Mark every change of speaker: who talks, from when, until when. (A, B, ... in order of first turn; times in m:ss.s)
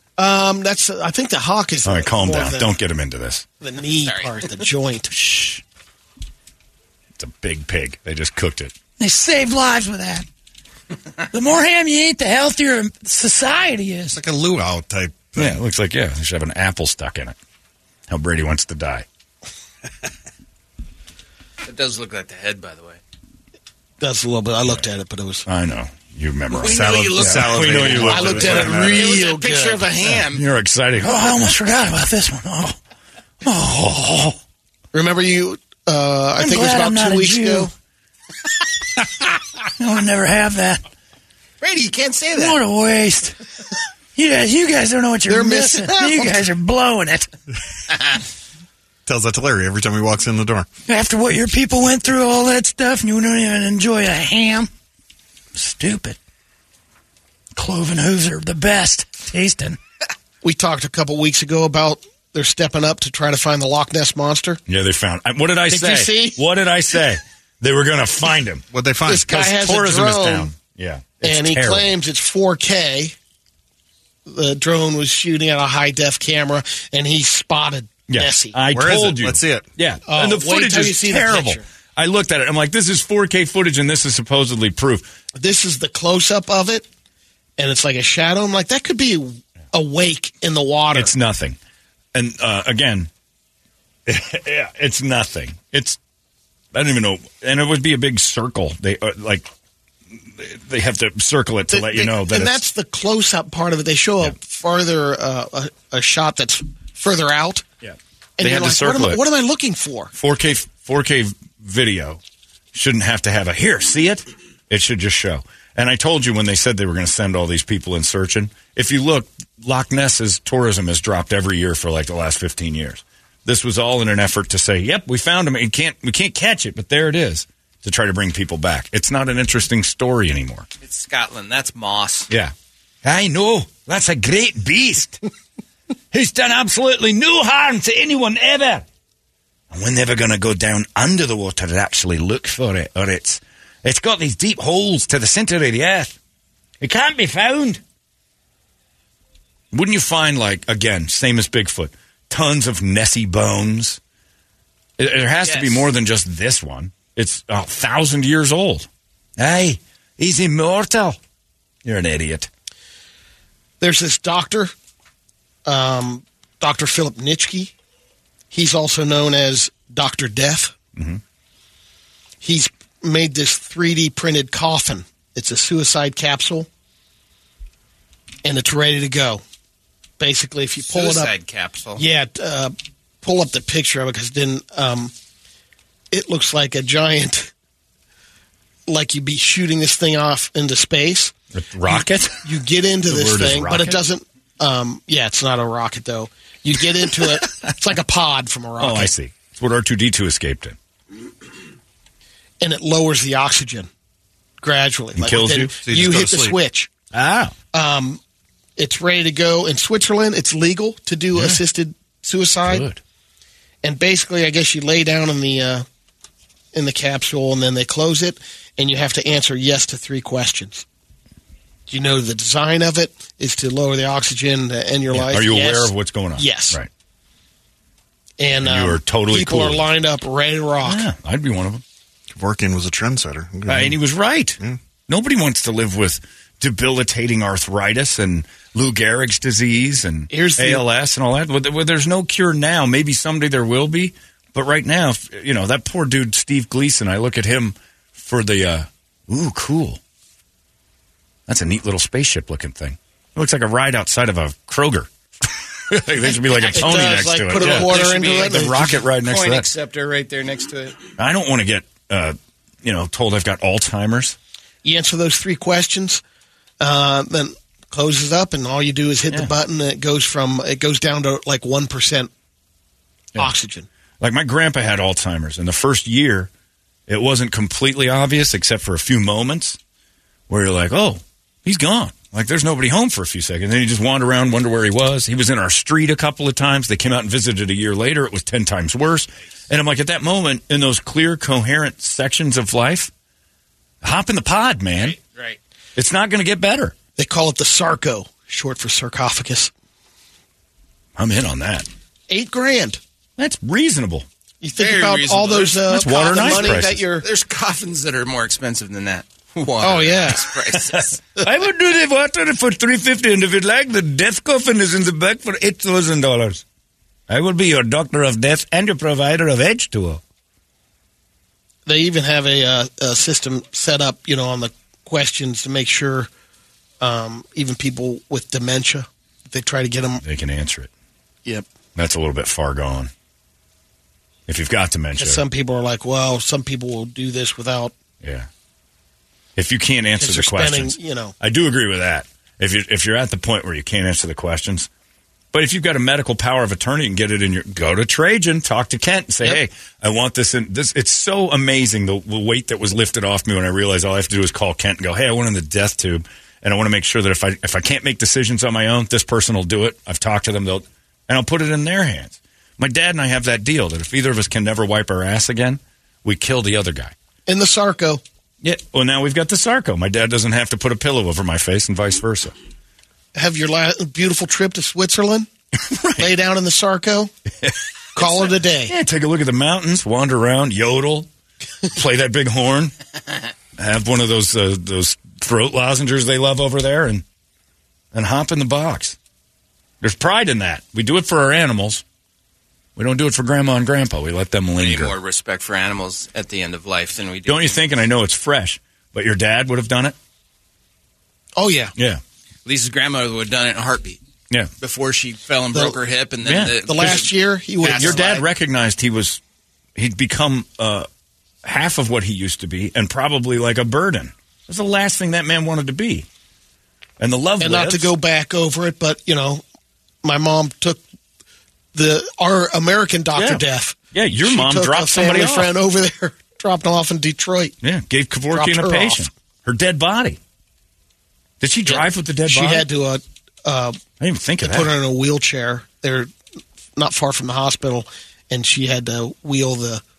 0:00.2-0:02.7 A
0:01.8-0:03.5 B
0:03.6-0:05.1 A
0:05.1-0:05.6 B
0:07.2-0:08.7 B
0:09.0-0:10.3 C
0:11.3-0:14.2 C
0:14.1-0:15.6 D
0:15.4-0:17.4 B
0:18.1-0:19.0 B
0:21.6-0:23.0 E
0:24.0-0:25.4 A
0:25.5-0:28.8 B
0:26.5-0:30.4 E
0:26.6-0:29.1 D
0:28.1-0:29.9 A
0:30.1-0:31.5 B
0:31.0-0:32.8 C
0:33.4-0:34.4 C
0:34.9-0:37.7 A
0:36.4-0:37.7 C
0:39.8-0:40.8 C
0:41.6-0:42.6 E
0:42.3-0:43.4 C
0:44.2-0:47.3 C
0:45.3-0:46.4 A
0:49.1-0:50.7 D
0:50.9-0:54.7 C
0:55.6-0:56.2 C
0:57.6-0:59.8 C
1:00.4-1:04.6 A
1:04.7-1:08.6 B
1:05.7-1:06.4 A
1:08.7-1:09.3 D
1:09.1-1:10.5 A
1:09.3-1:11.9 B
1:11.2-1:13.2 A
1:14.3-1:18.6 A
1:18.1-1:25.1 B
1:18.7-1:19.6 D
1:20.1-1:21.6 A
1:25.4-1:26.9 A
1:27.6-1:31.1 A
1:30.9-1:31.6 B
1:32.1-1:33.1 B
1:34.1-1:36.0 B
1:36.7-1:39.5 B
1:40.2-1:42.6 B
1:41.7-1:47.6 A
1:47.8-1:49.2 B
1:48.4-1:50.1 A
1:50.1-1:52.2 B
1:52.7-2:10.7 B
2:10.8-2:12.3 E
2:12.3-2:15.2 B
2:16.1-2:18.9 B
2:19.7-2:26.2 B
2:26.8-2:27.8 B
2:29.7-2:34.0 B
2:35.0-2:41.2 B
2:35.4-2:35.9 E
2:41.8-2:42.5 B
2:43.8-2:44.7 A
2:45.7-2:47.7 A
2:48.5-2:50.7 A
2:51.0-2:51.2 B
2:52.4-2:56.7 A
2:58.4-2:59.4 A
3:00.2-3:01.3 A
3:00.9-3:02.0 E
3:02.0-3:05.1 A
3:06.1-3:07.5 A
3:08.9-3:11.3 A
3:11.5-3:12.4 B
3:12.4-3:19.1 A
3:13.1-3:14.0 B
3:18.8-3:20.8 B
3:22.6-3:23.9 A
3:24.6-3:26.9 A
3:25.2-3:25.8 B
3:25.8-3:26.6 D
3:27.1-3:27.5 B
3:27.7-3:28.2 A
3:28.8-3:32.8 A
3:31.3-3:31.6 B
3:32.6-3:33.0 B
3:33.8-3:35.8 A
3:36.7-3:40.8 A
3:41.9-3:46.8 A
3:45.1-3:46.9 B
3:48.4-3:51.0 A
3:48.6-3:49.8 B
3:50.8-3:51.8 B
3:52.4-3:54.0 D
3:53.7-4:10.0 B
4:00.3-4:00.8 A
4:11.5-4:19.7 B
4:16.7-4:19.0 A
4:17.5-4:21.0 E
4:21.2-4:24.4 B
4:24.8-4:26.2 A
4:26.8-4:32.3 A
4:33.4-4:33.9 A
4:34.2-4:36.5 B
4:37.1-4:39.8 B
4:40.5-4:53.1 B
4:54.0-4:55.2 B
4:55.0-4:55.6 E
4:56.0-4:57.0 B
4:57.2-4:59.7 A
5:01.2-5:01.9 B
5:02.3-5:03.0 A
5:03.4-5:04.3 B
5:04.6-5:07.3 A
5:04.8-5:11.4 E
5:05.9-5:07.0 B
5:09.8-5:10.4 A
5:10.8-5:16.6 B
5:17.3-5:20.2 B
5:21.9-5:26.3 A
5:27.0-5:30.2 A
5:30.2-5:30.9 B
5:32.0-5:33.1 B
5:34.5-5:35.4 B
5:35.2-5:37.9 A
5:38.2-5:38.5 B
5:39.6-5:44.9 B
5:40.2-5:41.3 A
5:45.5-6:07.1 B
6:07.5-6:08.2 A
6:08.6-6:12.5 B
6:13.4-6:15.5 A
6:15.8-6:16.3 B
6:16.2-6:17.3 A
6:17.6-6:21.3 B
6:18.2-6:18.9 A
6:21.9-6:22.9 B
6:23.8-6:27.2 B
6:28.1-6:29.2 B
6:30.0-6:32.0 B
6:33.0-6:35.2 B
6:34.8-6:37.8 E
6:37.5-6:40.2 B
6:41.6-6:41.9 A
6:42.6-6:44.2 E
6:44.8-6:48.4 E
6:46.4-6:47.2 B
6:46.9-6:48.4 A
6:47.8-6:49.4 B
6:50.0-6:51.1 B
6:51.6-6:56.3 B
6:57.2-6:58.1 B
6:57.6-6:59.6 A
7:00.2-7:01.0 A
7:01.9-7:07.7 A
7:03.4-7:03.6 B
7:04.1-7:05.7 B
7:07.8-7:10.4 B
7:08.5-7:09.3 A
7:11.6-7:12.9 B
7:11.9-7:14.0 A
7:14.2-7:14.9 B
7:14.6-7:16.3 A
7:17.0-7:20.0 A